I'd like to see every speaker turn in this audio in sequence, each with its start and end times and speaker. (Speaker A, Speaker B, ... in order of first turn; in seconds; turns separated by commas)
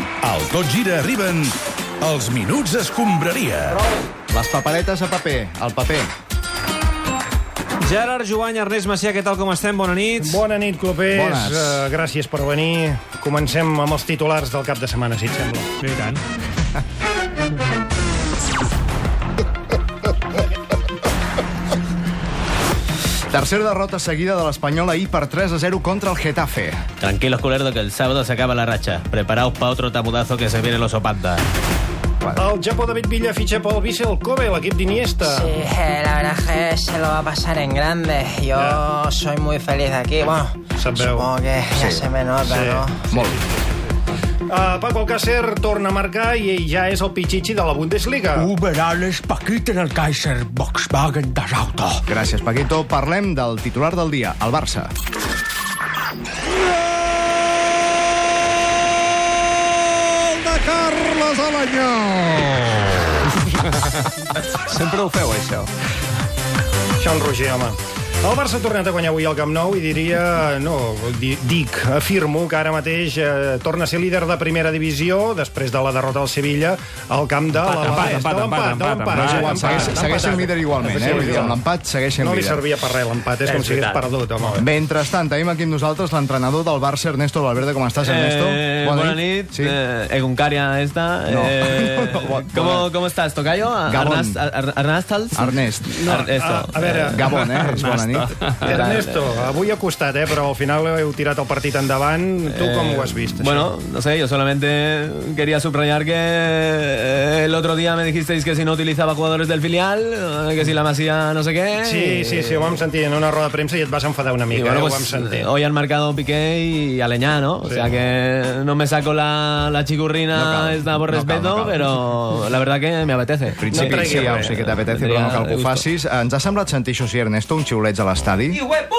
Speaker A: 0.2-3.8, Speaker B: 4.3-6.1, Speaker C: 7.8-10.4, Speaker D: 10.2-15.7, Speaker B: 11.1-11.8, Speaker C: 15.8-16.2, Speaker B: 23.3-26.8, Speaker E: 27.0-31.4, Speaker B: 32.2-32.5, Speaker D: 32.4-35.5, Speaker F: 35.2-43.1, Speaker D: 38.5-38.8, Speaker D: 40.8-41.3, Speaker B: 41.7-42.1, Speaker D: 42.5-43.9, Speaker B: 43.1-43.4, Speaker D: 44.5-48.5, Speaker G: 48.4-52.0, Speaker B: 52.1-54.9, Speaker C: 60.4-62.6, Speaker C: 64.5-65.7, Speaker D: 67.0-81.6, Speaker C: 77.6-80.2, Speaker B: 79.3-82.6, Speaker D: 82.2-84.7, Speaker E: 83.4-84.2, Speaker B: 84.6-89.8, Speaker E: 88.0-97.2, Speaker B: 91.3-92.9, Speaker B: 93.9-94.4, Speaker B: 95.3-96.0, Speaker D: 96.0-97.7, Speaker B: 96.8-98.3, Speaker C: 97.6-98.6, Speaker E: 98.6-99.5, Speaker D: 98.6-103.7, Speaker E: 102.5-112.8, Speaker D: 111.8-115.5, Speaker E: 114.5-125.8, Speaker B: 120.3-122.0, Speaker B: 123.6-128.7, Speaker D: 123.7-124.6